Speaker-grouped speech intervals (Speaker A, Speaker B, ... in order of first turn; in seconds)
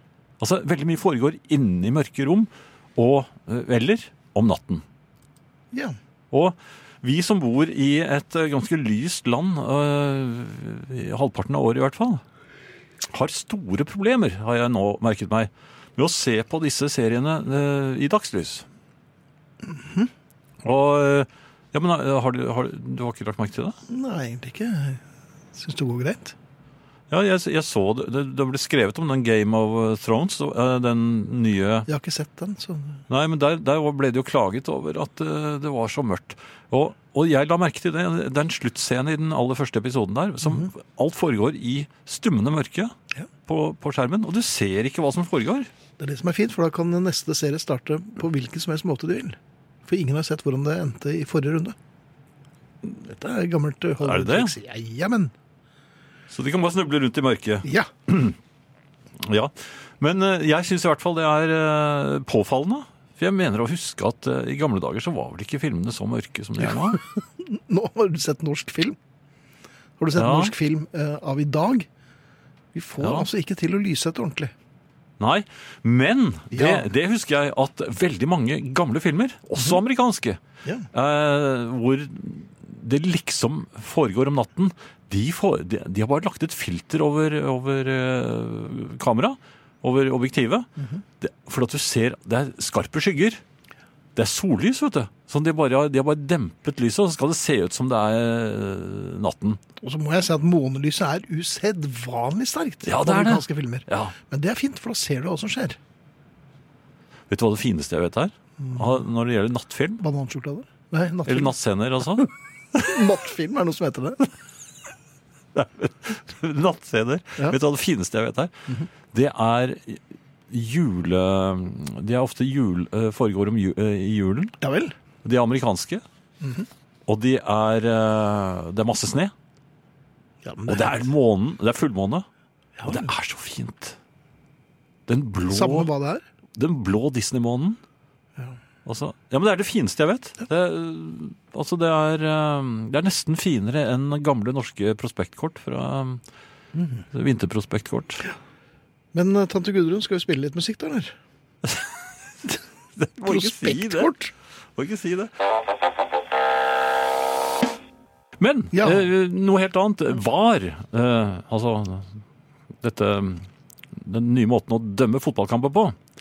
Speaker A: 0.4-4.8, 6.3-12.2, 13.1-18.6, 20.6-23.8, 27.1-31.9, 33.1-42.9, 43.5-45.7, 54.0-54.5, 56.3-58.4, 59.2-67.0, 70.1-70.5, 73.0-73.3, 75.2-80.4, 80.9-90.7, 91.2-93.4, 94.2-99.6, 102.8-104.1, 107.3-110.0, 111.3-112.9, 115.5-124.5, 125.2-126.0, 127.1-129.3, 130.7-132.2, 132.8-133.9, 135.1-135.9, 136.6-137.8, 138.9-146.2, 147.1-148.3, 151.6-151.9, 153.0-154.1, 154.8-155.3, 158.4-162.2, 162.8-163.4, 164.0-165.9
Speaker B: 19.6-20.1, 23.9-25.0, 25.5-26.3, 31.9-33.0, 46.0-51.8, 52.8-55.3, 57.6-57.9, 66.6-69.0, 70.0-71.9, 72.7-74.5, 76.5-76.9, 90.8-91.0, 99.8-105.8, 110.0-111.5, 112.8-114.3, 124.6-125.0, 126.4-126.7, 130.4-131.1, 132.8-133.1, 135.5-136.2, 146.8-147.0, 149.1-151.1, 153.2-154.3, 158.7-159.1